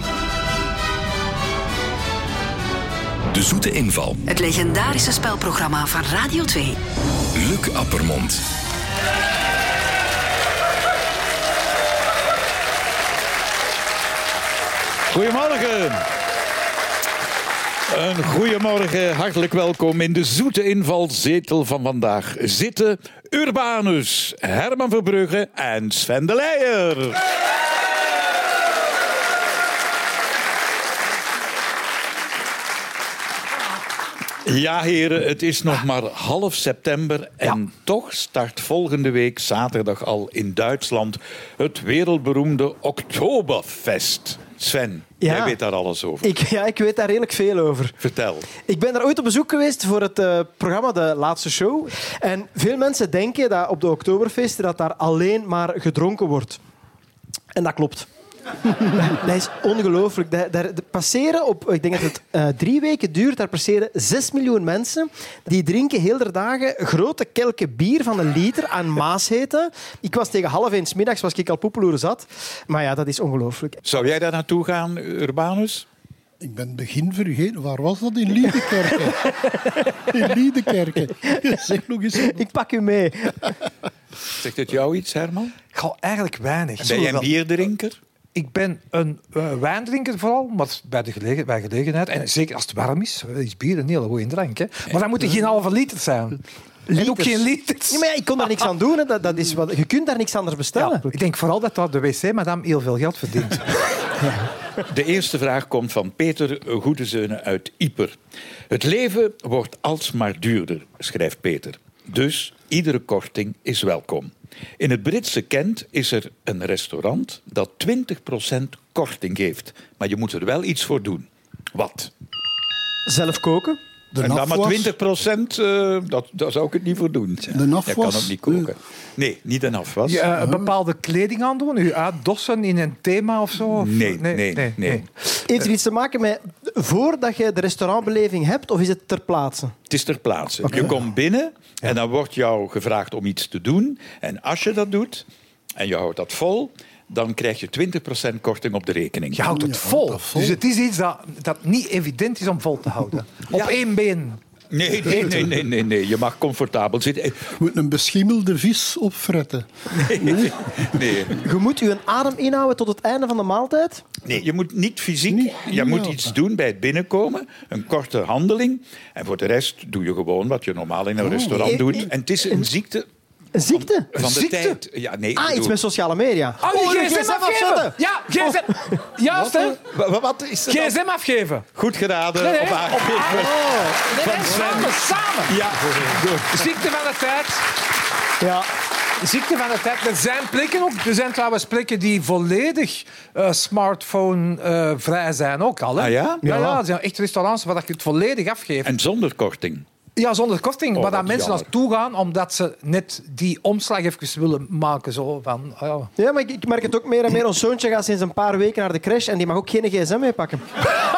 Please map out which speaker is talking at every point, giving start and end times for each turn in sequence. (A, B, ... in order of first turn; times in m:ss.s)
0:03.3-0:04.2 A
0:04.3-0:06.8 B
0:07.3-0:08.4 A
0:15.1-0:16.0 C
0:17.9-0:27.2 C
0:34.4-0:46.3 C
0:45.2-0:45.6 D
0:46.2-0:48.0 D
0:48.0-0:48.5 C
0:48.6-0:56.6 D
0:57.5-0:58.1 D
0:58.7-1:13.8 D
1:13.8-1:15.8 C
1:16.4-1:19.3 E
1:20.0-1:22.4 E
1:22.2-1:23.6 D
1:24.3-1:25.5 C
1:25.7-1:27.3 F
1:26.8-1:28.0 C
1:28.3-1:38.6 F
1:36.9-1:41.1 D
1:40.8-1:43.8 F
1:44.8-1:48.2 C
1:48.7-2:02.1 C
2:03.0-2:03.8 D
2:04.1-2:04.9 E
2:04.2-2:10.2 C
2:07.5-2:08.7 E
2:10.0-2:15.6 F
2:10.3-2:10.7 E
2:13.7-2:15.0 C
2:15.5-2:19.7 D
2:19.9-2:25.2 C
2:25.8-2:29.5 C
2:29.3-2:34.4 F
2:29.5-2:30.6 E
2:33.5-2:33.8 C
2:34.7-2:37.5 C
2:35.0-2:35.5 F
2:37.6-2:41.2 E
2:40.0-2:41.4 C
2:41.3-2:44.0 D
2:44.2-2:53.1 C
2:45.3-2:46.3 E
2:51.2-2:51.6 E
2:51.6-2:52.6 D
2:53.5-2:54.1 D
2:53.7-2:55.8 C
2:54.1-2:54.8 F
2:55.4-2:59.0 D
2:56.6-2:59.8 F
2:59.9-3:01.0 C
3:00.7-3:01.7 F
3:01.7-3:06.7 C
3:02.4-3:07.7 F
3:08.4-3:08.7 D
3:09.2-3:18.9 F
3:16.0-3:16.4 C
3:16.4-3:16.8 D
3:18.8-3:19.8 C
3:20.2-3:26.1 F
3:20.9-3:21.7 C
3:26.2-3:30.7 D